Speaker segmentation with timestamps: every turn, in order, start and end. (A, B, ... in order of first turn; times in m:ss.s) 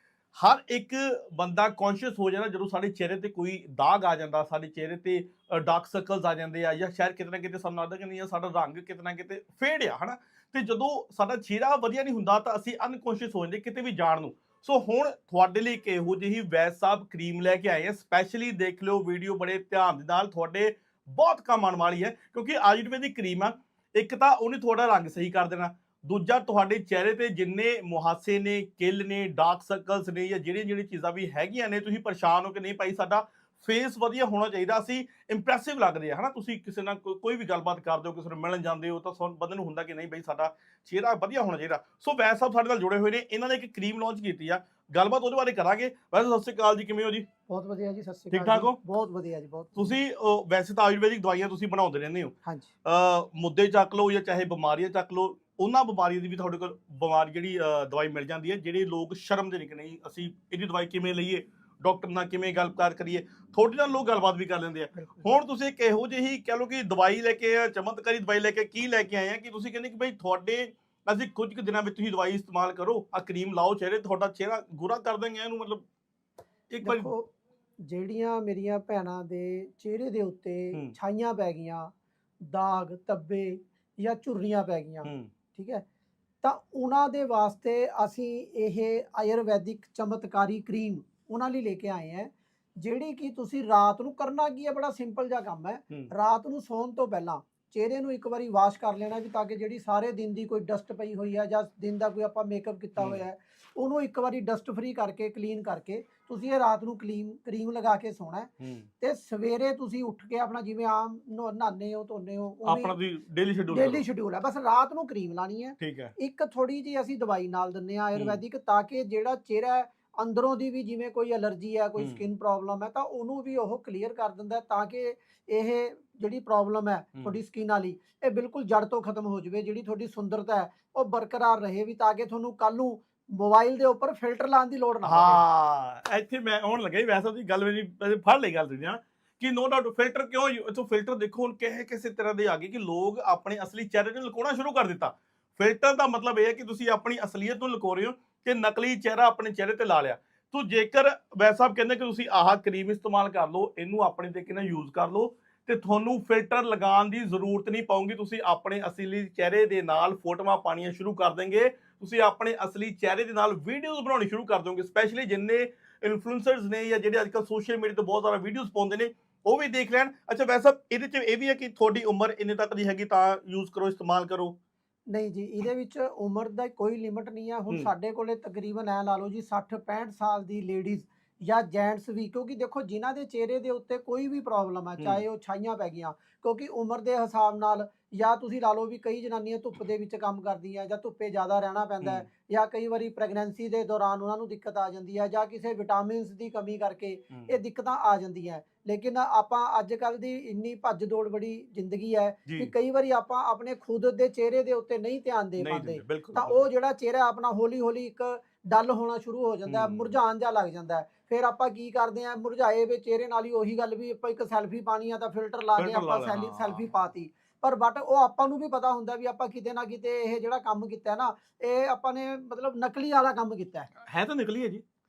0:00.4-0:47.3 A
0:47.5-0:50.0 B
0:48.3-0:48.8 A
0:49.8-0:52.3 A
0:52.4-0:52.7 B
0:52.8-1:15.8 A
1:05.0-1:05.3 B
1:16.7-1:17.1 A
1:16.8-1:17.3 B
1:17.8-1:21.9 B
1:22.4-1:25.8 B
1:25.0-1:25.3 A
1:26.4-1:53.0 B
1:43.0-1:43.2 A
1:48.6-1:48.9 A
1:52.6-1:54.0 A
1:53.7-2:15.4 B
1:55.8-1:56.1 A
1:58.2-1:58.4 A
2:02.0-2:02.2 A
2:15.0-2:54.6 A
2:55.1-3:43.9 B
3:05.0-3:05.2 A
3:12.0-3:12.3 A
3:17.3-3:17.6 A
3:22.5-3:22.7 A
3:25.6-3:26.7 A
3:29.7-3:30.2 A
3:35.8-3:36.9 A
3:44.0-3:44.8 A